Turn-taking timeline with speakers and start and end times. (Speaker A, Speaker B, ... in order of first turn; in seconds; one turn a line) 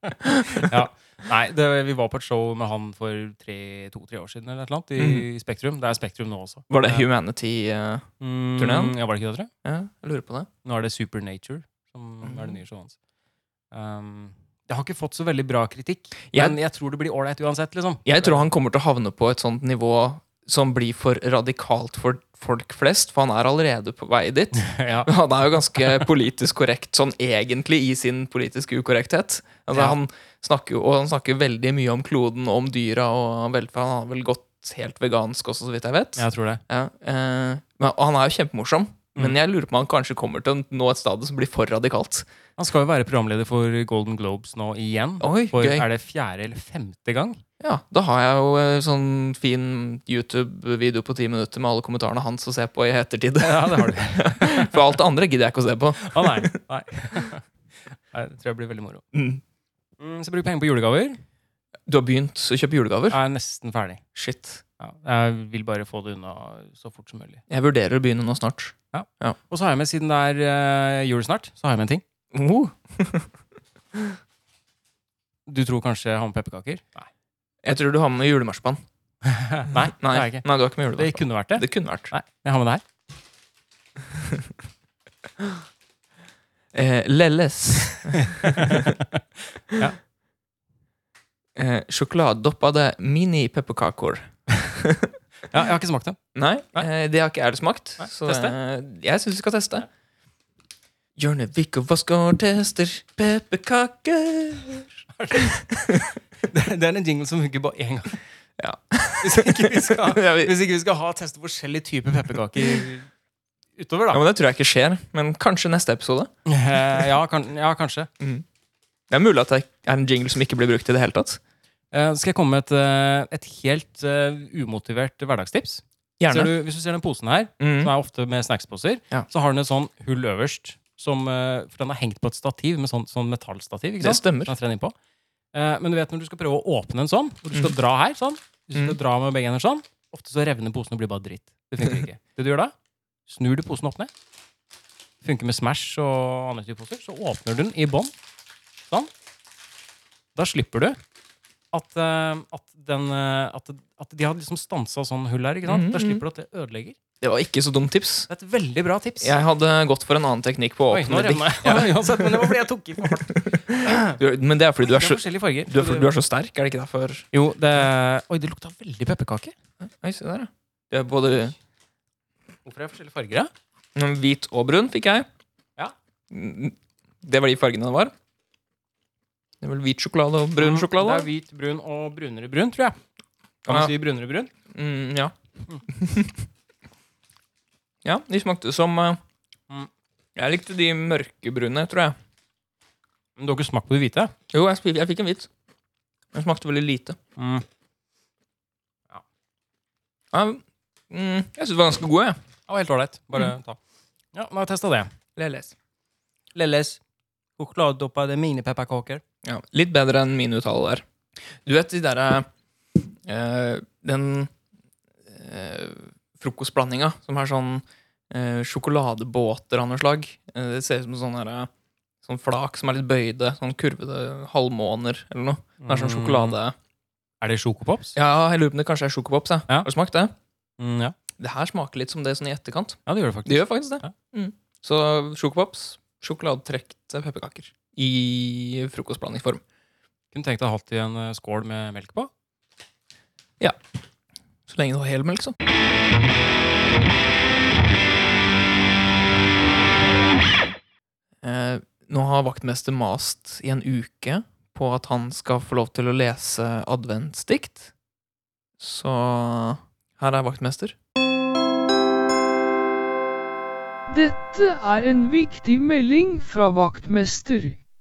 Speaker A: 0.2-0.7
Speaker B: 0.5-7.0
Speaker A: 5.0-5.2
Speaker A: 6.7-8.9
Speaker B: 8.2-9.5
Speaker A: 9.6-10.5
Speaker B: 10.6-13.0
Speaker A: 12.2-12.6
Speaker B: 13.7-18.4
Speaker A: 18.0-42.3
Speaker B: 24.6-25.1
Speaker B: 36.2-36.6
Speaker B: 42.6-47.4
Speaker A: 45.2-45.8
Speaker A: 47.6-56.5
Speaker B: 53.4-54.8
Speaker B: 56.0-59.0
Speaker A: 59.1-59.4
Speaker B: 60.0-61.2
Speaker A: 61.9-63.2
Speaker B: 63.1-64.0
Speaker A: 64.1-64.6
Speaker B: 64.8-67.4
Speaker A: 67.5-69.4
Speaker B: 68.9-72.0
Speaker A: 72.3-73.3
Speaker B: 75.5-77.1
Speaker A: 77.6-78.8
Speaker B: 79.2-80.4
Speaker A: 79.9-82.1
Speaker B: 81.0-82.8
Speaker A: 86.7-89.0
Speaker B: 88.1-89.2
Speaker A: 91.5-95.1
Speaker B: 95.5-96.2
Speaker A: 96.3-99.9
Speaker B: 98.0-98.5
Speaker A: 101.2-106.0
Speaker B: 105.1-108.2
Speaker A: 108.6-110.5
Speaker B: 109.2-113.1
Speaker B: 113.8-114.2
Speaker A: 114.1-116.3
Speaker B: 116.5-118.1
Speaker A: 118.2-118.4
Speaker A: 119.1-121.4
Speaker B: 121.9-134.9
Speaker A: 126.2-126.5
Speaker A: 127.6-127.9
Speaker A: 134.0-134.5
Speaker B: 135.5-142.7
Speaker B: 143.2-144.1
Speaker B: 145.2-148.1
Speaker B: 150.3-151.0
Speaker B: 151.7-157.0
Speaker A: 155.7-156.2
Speaker A: 157.2-158.3
Speaker B: 158.3-159.3
Speaker A: 159.2-162.5
Speaker B: 160.9-164.2
Speaker A: 163.0-167.3
Speaker B: 164.8-166.1
Speaker B: 167.3-169.5
Speaker A: 169.8-171.5
Speaker B: 172.7-173.5
Speaker A: 173.9-175.3
Speaker A: 176.3-178.1
Speaker A: 179.6-181.3
Speaker B: 180.6-183.0
Speaker A: 183.7-183.9
Speaker B: 183.7-184.5
Speaker A: 184.7-185.3
Speaker A: 185.9-186.4
Speaker A: 188.0-189.2
Speaker A: 190.3-192.2
Speaker B: 193.4-194.3
Speaker A: 194.5-195.5
Speaker A: 196.3-197.2
Speaker B: 197.4-197.6
Speaker A: 200.3-202.4
Speaker B: 202.7-203.8
Speaker B: 204.3-205.1
Speaker A: 205.3-205.7
Speaker B: 206.5-207.0
Speaker B: 207.6-209.2
Speaker A: 209.4-211.0
Speaker A: 211.6-214.5
Speaker A: 215.3-221.7
Speaker A: 222.2-226.7
Speaker B: 225.8-226.6
Speaker B: 227.4-228.2
Speaker A: 228.2-230.3
Speaker B: 230.8-231.1
Speaker A: 231.4-239.6
Speaker B: 233.1-234.1
Speaker B: 240.3-242.3
Speaker A: 244.7-245.5
Speaker A: 251.4-257.9
Speaker A: 258.8-260.9
Speaker C: 264.1-267.8